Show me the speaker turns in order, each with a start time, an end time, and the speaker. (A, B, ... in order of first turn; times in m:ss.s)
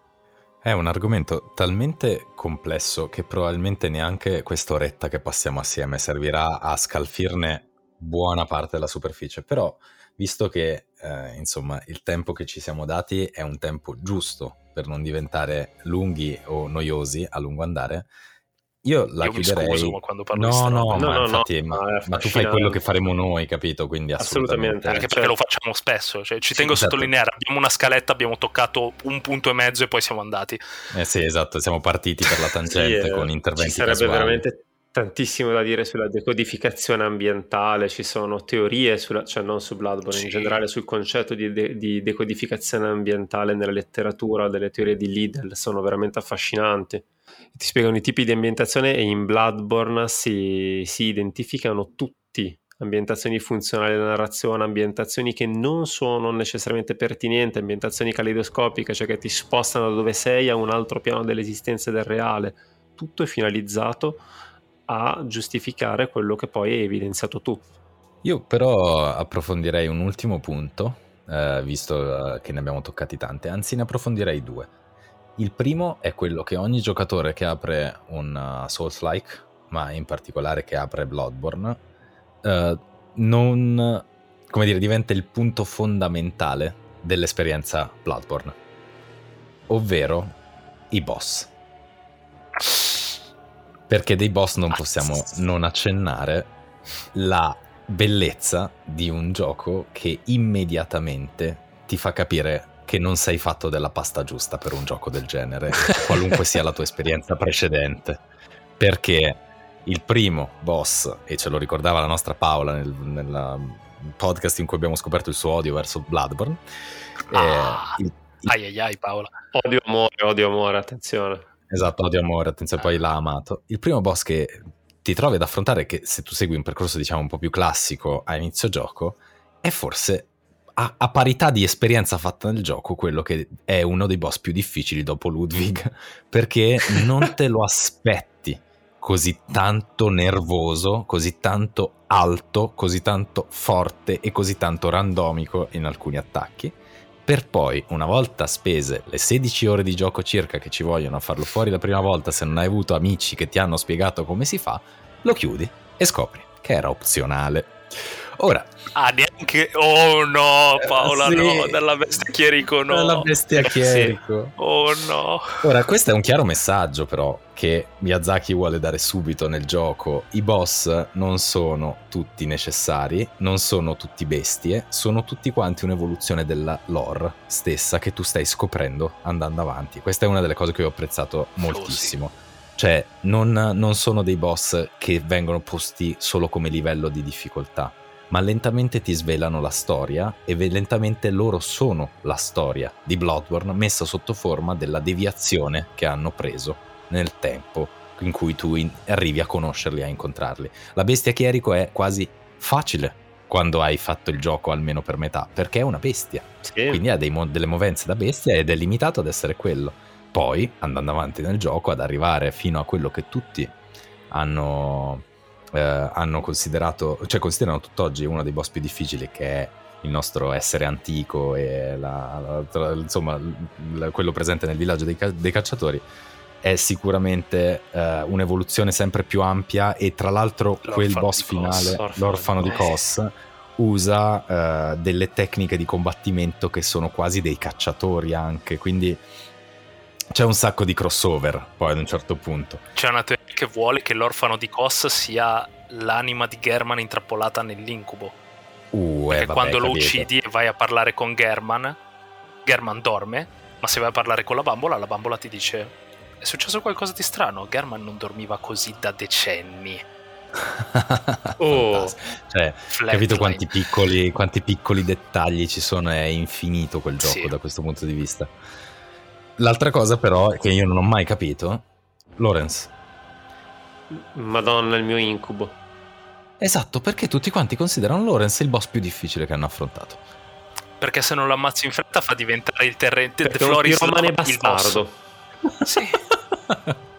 0:00.6-0:18.1 A
0:18.8-0:25.1 A
0:19.2-0:21.2 B
0:20.9-0:22.8 C
0:24.2-0:25.3 C
0:24.9-0:30.6 B
0:26.5-0:27.1 A
0:30.9-0:34.4 A
0:32.7-0:47.0 C
0:40.1-0:40.6 B
0:47.6-1:04.2 C
1:04.9-1:07.7 C
1:08.2-1:14.7 A
1:15.4-1:21.8 A
1:22.4-1:28.6 A
1:29.7-1:30.4 A
1:30.9-1:31.5 A
1:33.9-1:36.5 A
1:34.7-1:35.3 B
1:37.1-1:48.2 A
1:48.8-1:56.6 A
1:57.3-1:58.5 A
1:57.3-1:59.3 B
1:59.5-2:01.5 C
2:01.7-2:37.8 A
2:38.4-2:38.7 A
2:39.0-2:45.6 B
2:40.8-2:41.8 A
2:42.9-2:44.6 A
2:45.6-3:33.8 A
3:01.6-3:02.2 B
3:26.6-3:27.0 C
3:34.3-3:46.0 A
3:46.6-3:59.2 A
3:50.8-3:52.0 B
3:51.7-3:52.9 C
3:52.6-3:52.9 B
4:00.3-4:02.8 A
4:03.0-4:08.4 B
4:08.9-4:10.3 A
4:09.3-4:12.0 B
4:12.6-4:20.0 B
4:20.6-4:28.5 A
4:21.6-4:22.2 C
4:22.9-4:23.7 B
4:27.2-4:27.5 B
4:29.6-4:32.9 A
4:34.1-4:35.8 C
4:36.6-4:40.2 A
4:41.0-4:45.0 B
4:43.4-4:45.1 C
4:45.9-4:46.2 B
4:46.7-4:47.0 A